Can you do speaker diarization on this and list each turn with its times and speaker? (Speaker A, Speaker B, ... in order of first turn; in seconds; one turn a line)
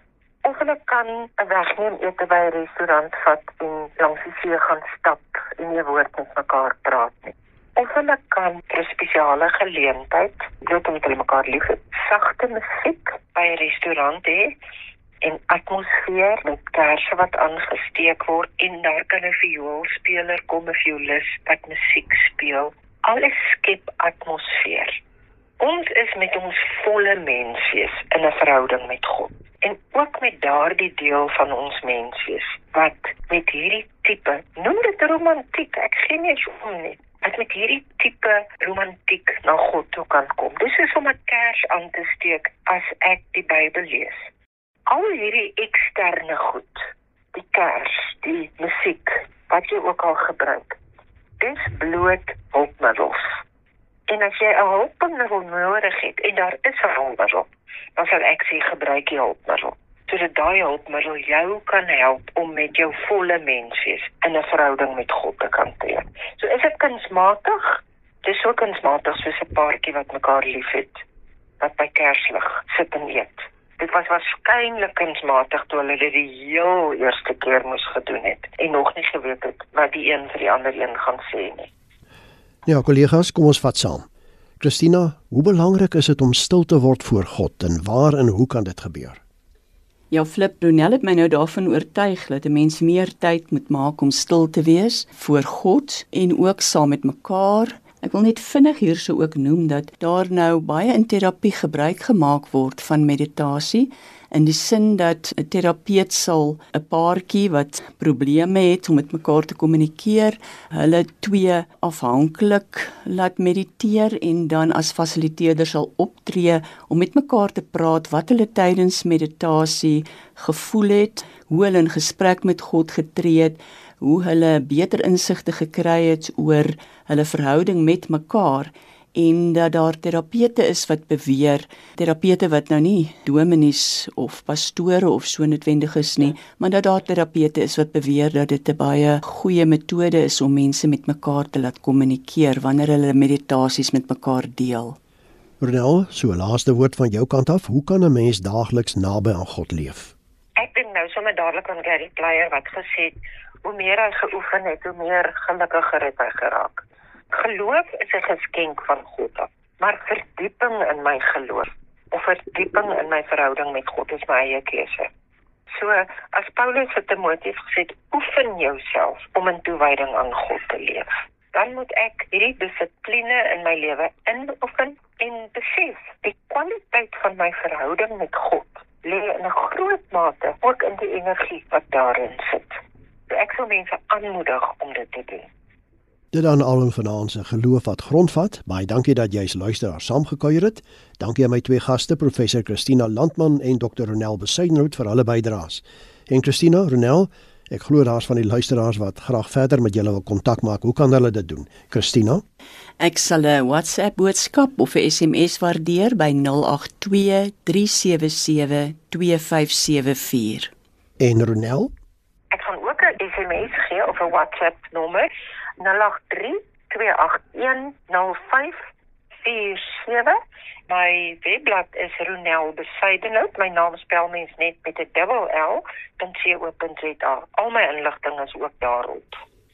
Speaker A: 0.4-14.5
Speaker A: 15.2-25.0
Speaker A: 25.6-44.3
Speaker A: 44.9-50.8
Speaker A: 51.4-53.4
Speaker A: 54.1-71.0
Speaker A: 71.6-81.7
Speaker B: 82.7-84.1
Speaker B: 84.6-89.2
Speaker C: 90.1-145.0
Speaker B: 145.6-150.1
Speaker A: 150.6-153.1
Speaker A: 153.6-165.1
Speaker A: 165.7-185.5
Speaker B: 186.3-202.4
Speaker C: 203.0-210.7
Speaker B: 211.2-211.9
Speaker A: 212.5-218.8
Speaker A: 219.4-220.4
Speaker A: 220.9-229.4